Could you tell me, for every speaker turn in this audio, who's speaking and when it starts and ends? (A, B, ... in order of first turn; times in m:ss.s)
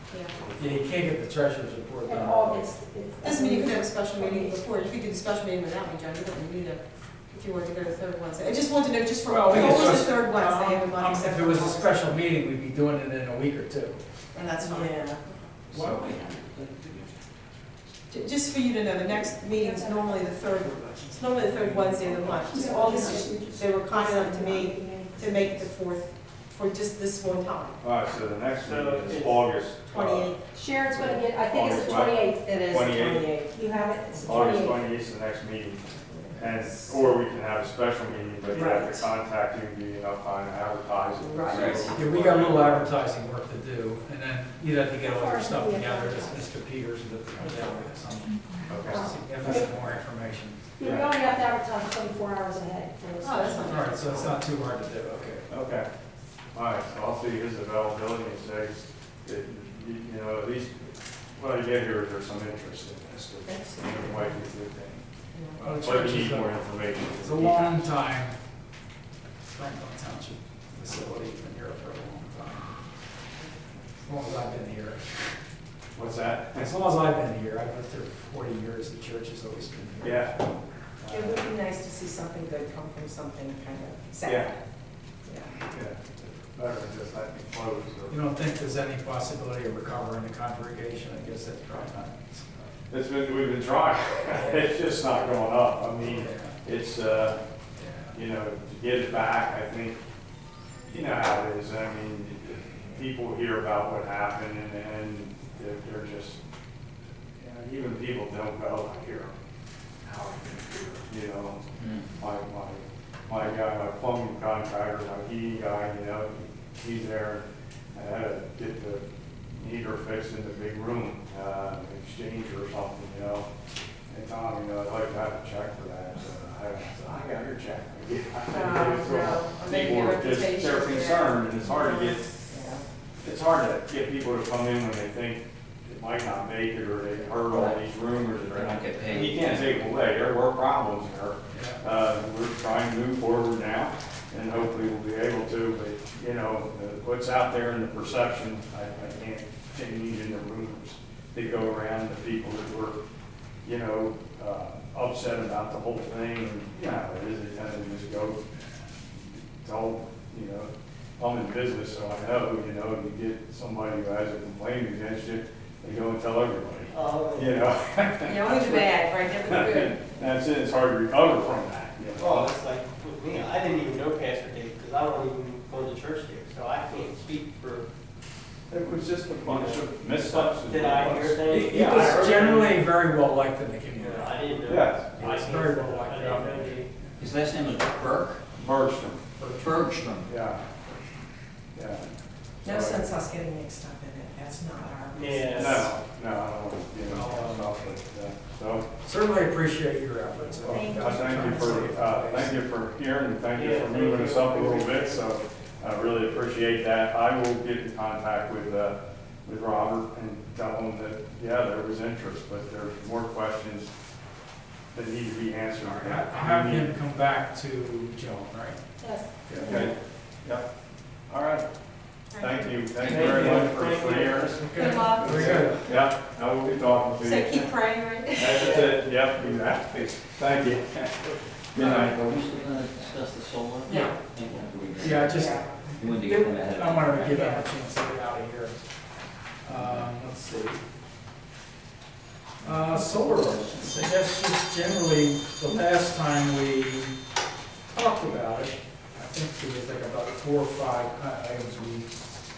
0:00.1-0:00.4 A
0:00.6-0:02.7 B
0:02.0-0:04.6 C
0:03.2-0:12.1 A
0:09.2-0:14.0 B
0:09.5-0:09.8 D
0:14.3-0:15.1 A
0:14.6-0:15.2 C
0:15.7-0:17.1 D
0:15.7-0:16.2 B
0:18.1-0:27.8 A
0:19.0-0:20.5 C
0:22.4-0:25.7 C
0:27.8-0:30.3 E
0:28.6-0:29.6 F
0:29.8-0:30.4 A
0:30.5-0:35.0 C
0:30.9-0:33.3 E
0:34.2-0:35.8 E
0:36.4-0:42.9 E
0:38.5-0:38.9 F
0:38.7-0:39.0 C
0:41.2-0:41.8 C
0:41.5-0:41.9 D
0:41.9-0:50.6 B
0:45.0-0:46.5 C
0:47.4-0:47.8 C
0:48.7-0:49.5 E
0:48.8-0:49.7 C
0:50.8-0:53.8 C
0:50.8-0:51.1 E
0:53.2-0:54.3 A
0:53.6-0:55.5 B
0:55.5-0:55.9 E
0:56.5-1:05.0 E
1:03.4-1:04.3 A
1:05.3-1:05.6 A
1:05.6-1:06.6 B
1:05.8-1:07.9 E
1:07.2-1:08.4 B
1:09.5-1:12.8 B
1:14.0-1:15.0 B
1:15.9-1:16.6 E
1:16.6-1:20.5 B
1:20.0-1:20.4 E
1:21.0-1:21.4 E
1:21.1-1:24.6 A
1:24.2-1:24.5 E
1:25.2-1:25.5 A
1:25.7-1:28.3 E
1:28.1-1:32.7 B
1:32.9-1:37.4 E
1:34.3-1:34.7 B
1:36.0-1:36.6 B
1:37.8-1:38.2 B
1:38.1-1:40.0 E
1:40.9-1:46.4 E
1:47.4-1:49.3 E
1:50.0-1:51.6 E
1:51.8-1:52.0 D
1:52.2-2:03.5 E
2:04.1-2:12.3 E
2:08.5-2:12.8 A
2:13.2-2:33.0 E
2:17.5-2:17.9 D
2:18.4-2:19.7 D
2:21.5-2:21.8 B
2:33.6-2:38.4 E
2:39.3-2:52.5 E
2:46.9-2:47.6 F
2:48.2-2:50.0 A
2:52.2-2:57.8 F
2:58.7-3:02.3 E
2:59.4-3:02.8 F
3:01.5-3:04.4 B
3:03.9-3:06.9 F
3:04.6-3:05.4 E
3:05.1-3:06.8 B
3:07.2-3:08.4 D
3:08.5-3:09.2 E
3:09.4-3:10.1 B
3:09.6-3:10.3 D
3:10.2-3:10.6 E
3:11.7-3:12.1 E
3:12.6-3:13.1 E
3:12.6-3:15.8 A
3:15.1-3:15.9 F
3:15.5-3:18.8 E
3:17.0-3:17.7 B
3:19.0-3:22.6 B
3:20.6-3:33.9 E
3:20.7-3:21.0 A
3:21.0-3:21.3 C
3:23.5-3:25.2 F
3:34.9-3:36.9 E
3:35.8-3:38.8 B
3:39.0-3:39.7 C
3:39.5-3:39.7 B
3:39.5-3:40.6 E
3:41.3-3:41.6 E
3:42.3-3:42.9 A
3:42.4-3:44.6 E
3:43.0-3:43.7 D
3:43.0-3:45.8 F
3:44.7-3:45.8 B
3:44.7-3:45.4 A
3:45.2-3:47.6 E
3:47.2-3:48.8 A
3:48.3-3:52.2 E
3:48.5-3:49.0 F
3:51.7-3:57.5 D
3:53.8-3:54.2 A
3:55.0-3:58.8 B
3:55.3-3:55.6 A
3:59.6-4:00.8 B
3:59.7-4:00.1 D
4:02.6-4:07.1 B
4:07.9-4:12.1 B